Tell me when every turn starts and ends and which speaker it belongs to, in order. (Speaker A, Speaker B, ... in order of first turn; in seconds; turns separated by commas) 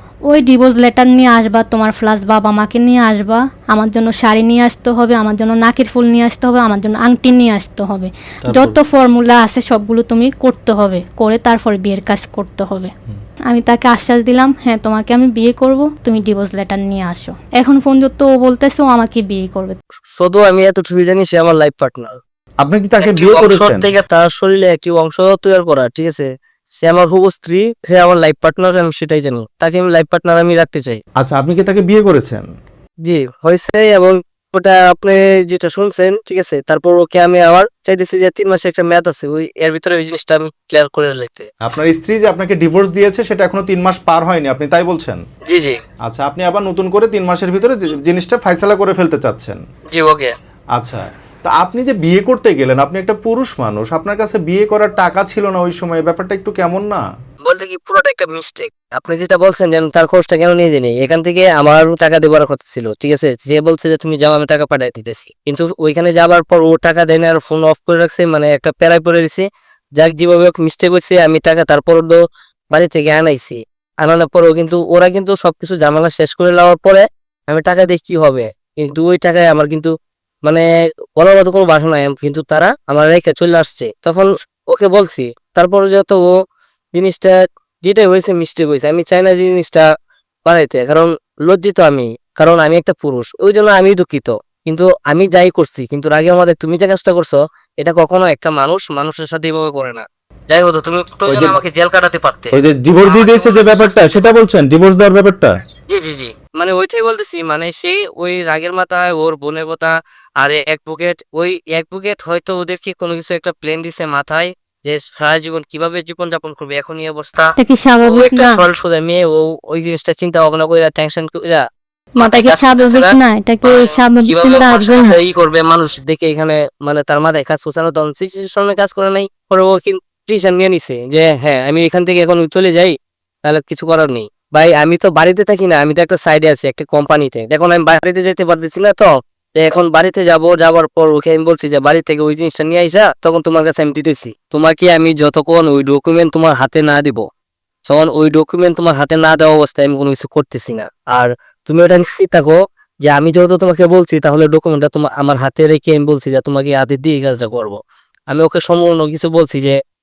Speaker A: 0.2-12.9, Speaker B: 8.4-8.8, Speaker A: 13.5-19.8, Speaker C: 20.2-22.2, Speaker B: 22.6-23.9, Speaker C: 23.0-31.0, Speaker B: 31.2-32.4, Speaker C: 33.0-41.5, Speaker B: 41.6-45.2, Speaker C: 45.5-45.8, Speaker B: 46.0-49.6, Speaker C: 49.9-50.3, Speaker B: 50.8-57.0, Speaker C: 57.4-69.5, Speaker C: 70.0-72.2, Speaker C: 72.7-79.9, Speaker C: 80.4-86.3, Speaker C: 86.9-89.9, Speaker C: 90.5-104.3, Speaker B: 101.2-101.6, Speaker B: 102.5-105.5, Speaker C: 105.9-121.6, Speaker A: 117.6-118.6, Speaker A: 122.2-125.2, Speaker C: 122.2-147.2, Speaker C: 147.9-157.8, Speaker C: 158.3-159.8